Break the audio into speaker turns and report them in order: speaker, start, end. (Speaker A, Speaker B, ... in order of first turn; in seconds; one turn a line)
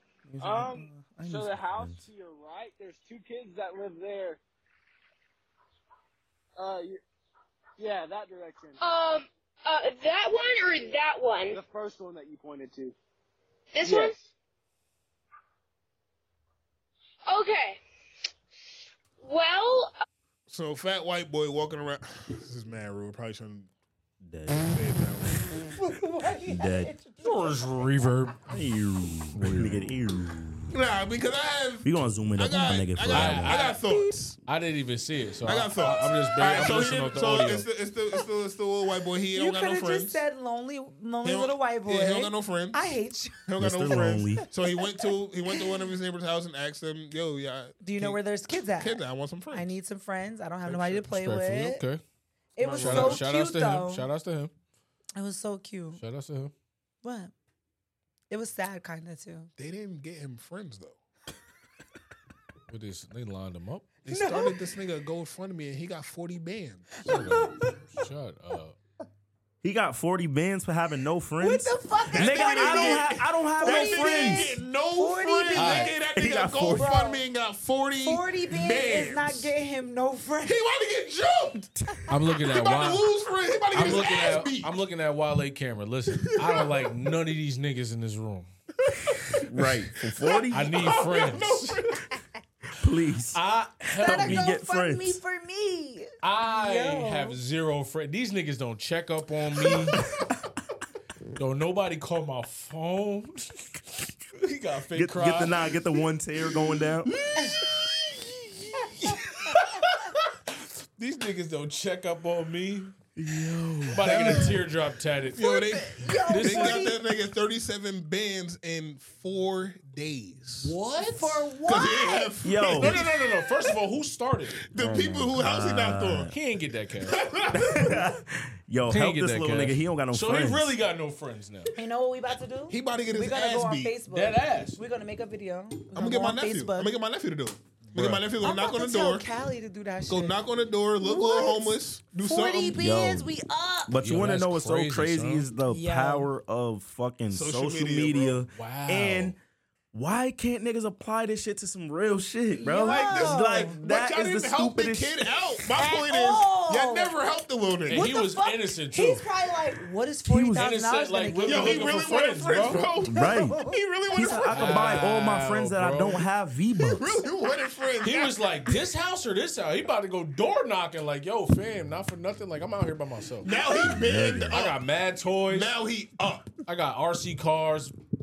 Speaker A: 0.3-2.0
Speaker B: 0.4-4.4
Speaker B: 6.6-7.0
Speaker B: 7.8-8.8
Speaker C: 8.8-11.6
Speaker B: 11.5-12.9
Speaker C: 13.7-14.2
Speaker B: 13.8-14.3
Speaker C: 17.3-17.8
Speaker C: 19.2-19.9
Speaker D: 20.5-23.7
Speaker A: 24.2-24.8
Speaker D: 24.6-25.7
Speaker E: 25.8-27.6
Speaker A: 26.4-26.9
Speaker F: 27.2-28.4
Speaker A: 28.5-30.8
Speaker F: 29.3-29.9
Speaker D: 30.7-34.4
Speaker A: 31.8-33.6
Speaker F: 33.1-33.8
Speaker F: 34.5-37.7
Speaker D: 35.4-40.2
Speaker E: 39.3-43.4
Speaker D: 41.2-42.9
Speaker D: 43.5-48.2
Speaker A: 43.6-44.5
Speaker E: 47.8-49.0
Speaker D: 48.8-49.7
Speaker E: 49.5-51.8
Speaker D: 50.7-51.0
Speaker F: 50.9-52.0
Speaker E: 52.5-54.1
Speaker D: 52.6-53.2
Speaker F: 52.8-54.5
Speaker E: 55.1-56.0
Speaker F: 56.0-56.5
Speaker E: 57.0-57.3
Speaker E: 58.3-59.5
Speaker D: 59.6-61.0
Speaker F: 62.7-63.9
Speaker D: 64.0-66.9
Speaker E: 64.1-64.5
Speaker E: 67.0-67.7
Speaker F: 67.0-68.8
Speaker A: 69.6-74.5
Speaker E: 71.4-75.9
Speaker D: 72.1-79.5
Speaker F: 75.5-75.9
Speaker A: 76.1-76.9
Speaker E: 76.7-77.2
Speaker E: 78.0-80.6
Speaker D: 80.4-81.7
Speaker F: 82.1-83.0
Speaker D: 82.4-84.7
Speaker F: 83.7-88.5
Speaker D: 86.1-86.7
Speaker D: 89.0-92.0
Speaker A: 89.4-91.0
Speaker F: 90.5-91.7
Speaker A: 92.8-93.4
Speaker F: 93.3-94.5
Speaker A: 94.0-95.2
Speaker E: 94.0-97.4
Speaker F: 96.2-100.0
Speaker F: 101.4-103.6
Speaker F: 104.3-105.6
Speaker A: 104.9-107.1
Speaker F: 107.2-107.6
Speaker E: 107.3-107.6
Speaker F: 109.0-110.0
Speaker F: 111.0-112.9
Speaker A: 113.2-114.4
Speaker F: 113.9-115.7
Speaker D: 114.0-114.6
Speaker D: 115.3-120.7
Speaker E: 115.4-117.0
Speaker F: 116.3-116.8
Speaker F: 120.6-121.4
Speaker E: 121.0-122.3
Speaker D: 121.6-123.2
Speaker A: 122.4-123.0
Speaker F: 122.7-124.7
Speaker D: 124.7-126.3
Speaker A: 124.7-126.3
Speaker F: 126.3-127.2
Speaker D: 127.1-128.0
Speaker A: 127.5-130.7
Speaker F: 128.9-131.7
Speaker E: 131.8-136.9
Speaker D: 132.7-133.9
Speaker F: 134.1-134.8
Speaker D: 135.9-139.2
Speaker F: 137.9-138.2
Speaker E: 138.4-140.4
Speaker D: 140.1-142.8
Speaker E: 141.0-143.9
Speaker A: 142.8-143.3
Speaker A: 143.9-149.4
Speaker F: 144.0-145.5
Speaker E: 145.7-146.3
Speaker D: 147.3-148.4
Speaker F: 148.5-149.3
Speaker A: 149.9-155.3
Speaker E: 152.6-153.8
Speaker D: 152.7-158.1
Speaker E: 155.8-157.1
Speaker F: 157.9-159.2
Speaker E: 157.9-162.1
Speaker A: 160.2-160.7
Speaker F: 160.5-162.9
Speaker D: 161.4-164.9
Speaker A: 163.0-167.2
Speaker E: 163.1-163.6
Speaker F: 164.5-166.2
Speaker D: 166.9-168.4
Speaker F: 168.0-173.5
Speaker D: 173.4-174.8
Speaker E: 173.4-173.9
Speaker A: 173.7-174.6
Speaker F: 174.5-175.7
Speaker D: 175.5-176.5
Speaker F: 176.7-177.9